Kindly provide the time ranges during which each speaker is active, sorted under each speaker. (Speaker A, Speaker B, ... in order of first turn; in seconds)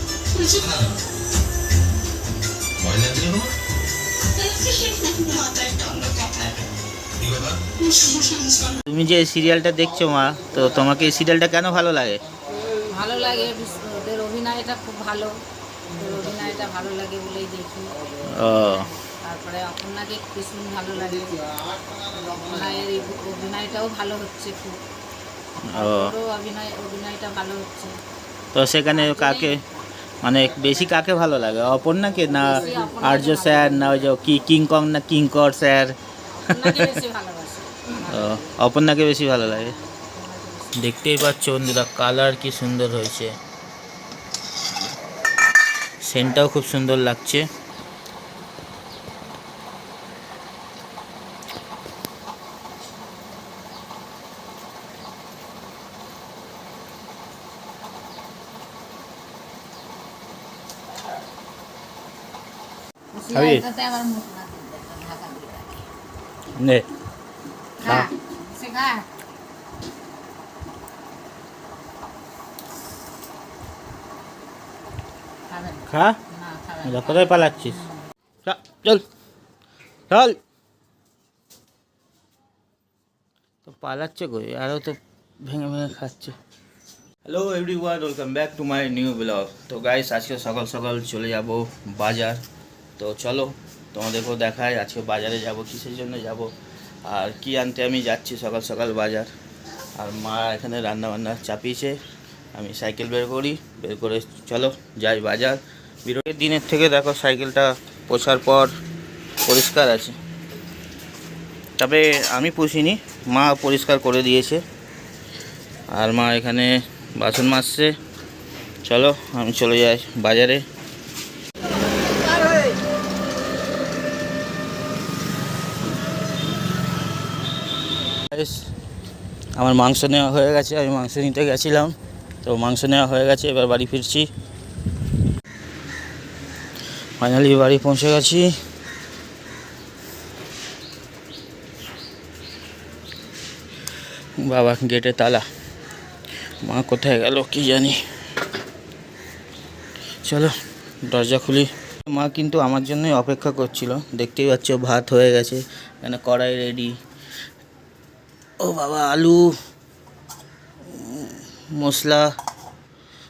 Speaker A: 0.3-0.9, 2.8-3.5, 4.3-8.8
Speaker B: 8.9-12.2, 18.3-18.9, 25.7-26.1, 28.5-29.6, 30.2-35.9, 36.5-37.0, 38.1-39.7, 40.8-43.3, 46.0-47.5, 63.3-63.6, 66.5-66.8, 67.8-68.1, 75.9-76.2, 76.8-77.8, 78.4-79.0, 80.1-80.4, 83.6-86.3, 87.2-92.4, 93.0-96.5, 97.0-99.3, 100.0-102.0, 102.5-108.7, 109.4-110.2, 111.8-114.6, 115.9-117.9, 118.9-120.6, 128.3-128.6, 129.6-134.3, 137.2-138.5, 144.4-145.4, 146.6-148.0, 150.2-150.5, 151.1-156.9, 158.6-159.5, 160.8-162.3
Speaker C: 12.9-15.4, 15.9-21.4, 22.0-24.8, 25.7-27.9, 28.9-29.8, 32.4-34.1, 36.3-38.5, 39.4-40.8, 63.1-65.9, 67.8-69.1, 75.5-78.0